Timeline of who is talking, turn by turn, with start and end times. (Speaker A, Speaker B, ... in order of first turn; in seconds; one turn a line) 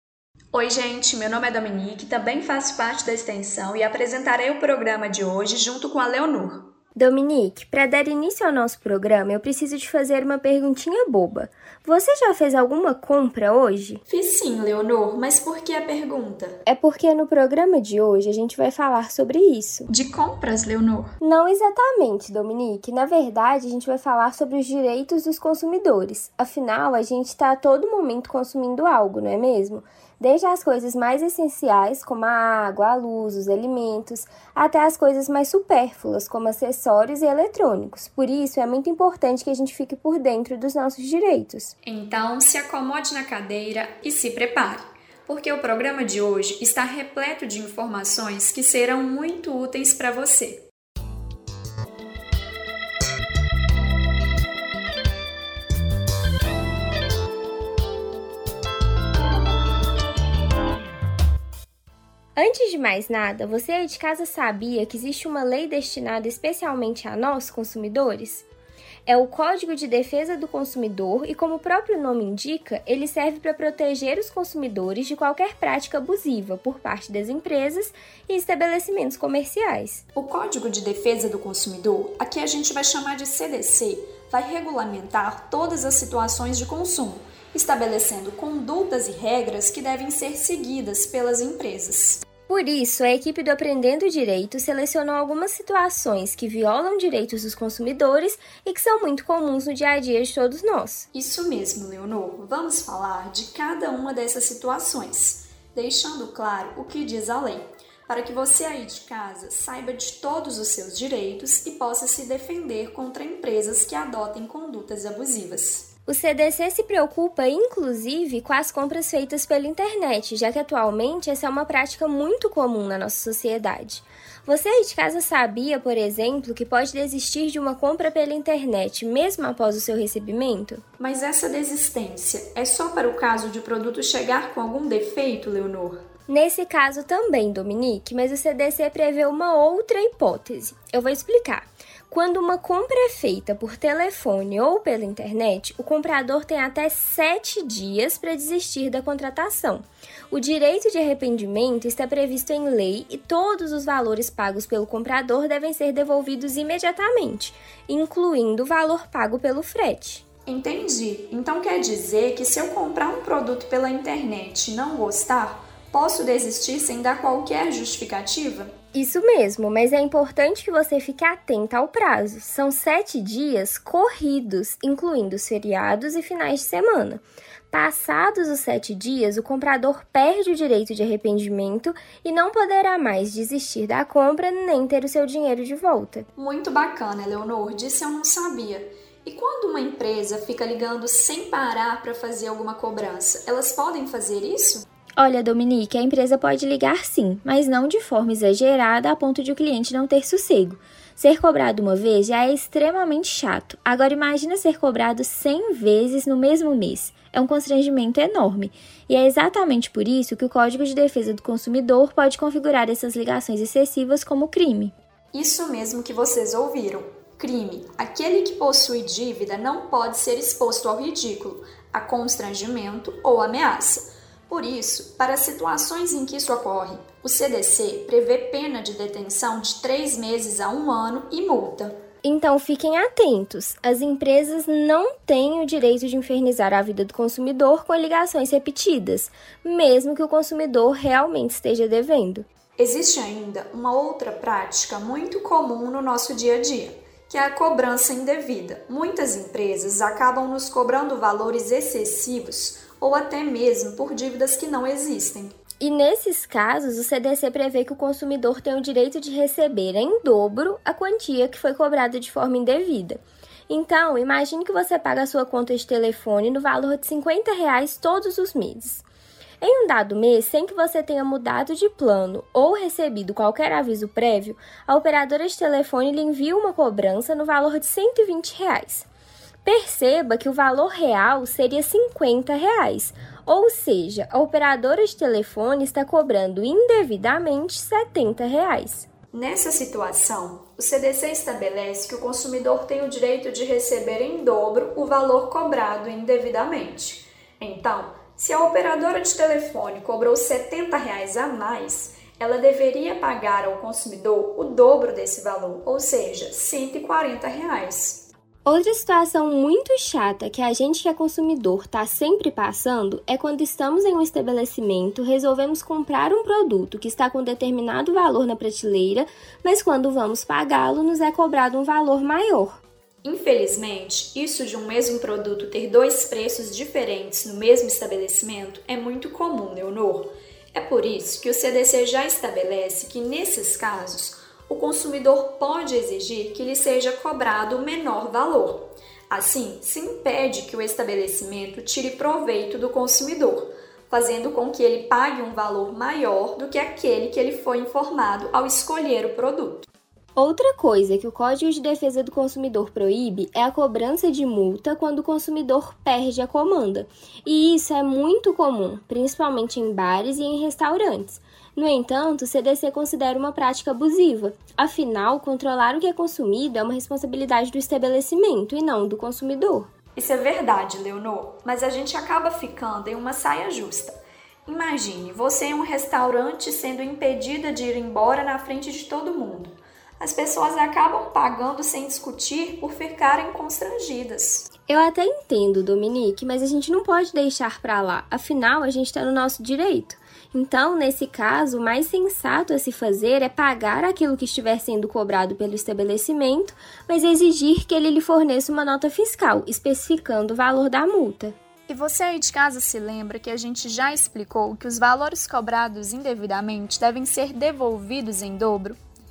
Speaker A: 0.5-6.7
Speaker B: 7.0-14.0
Speaker A: 14.1-16.6
Speaker B: 16.7-19.9
Speaker A: 19.9-21.2
Speaker B: 21.2-41.7
Speaker A: 41.8-50.7
Speaker B: 62.4-68.5
Speaker B: 69.1-80.0
Speaker A: 80.2-92.2
Speaker B: 92.5-101.1
Speaker A: 101.1-115.9
Speaker B: 116.1-130.8
Speaker A: 131.0-136.0
Speaker B: 136.3-160.2
Speaker A: 160.5-168.7
Speaker B: 168.9-186.3
Speaker A: 186.4-194.9
Speaker B: 195.2-214.9
Speaker A: 215.3-232.0
Speaker B: 232.2-242.5
Speaker A: 242.8-255.6
Speaker B: 255.8-269.1
Speaker B: 269.6-279.1
Speaker B: 279.6-289.1
Speaker A: 289.3-308.3
Speaker B: 308.6-322.8
Speaker A: 323.2-349.9
Speaker B: 350.4-369.9
Speaker A: 370.2-384.7
Speaker B: 384.9-401.6
Speaker A: 401.9-409.0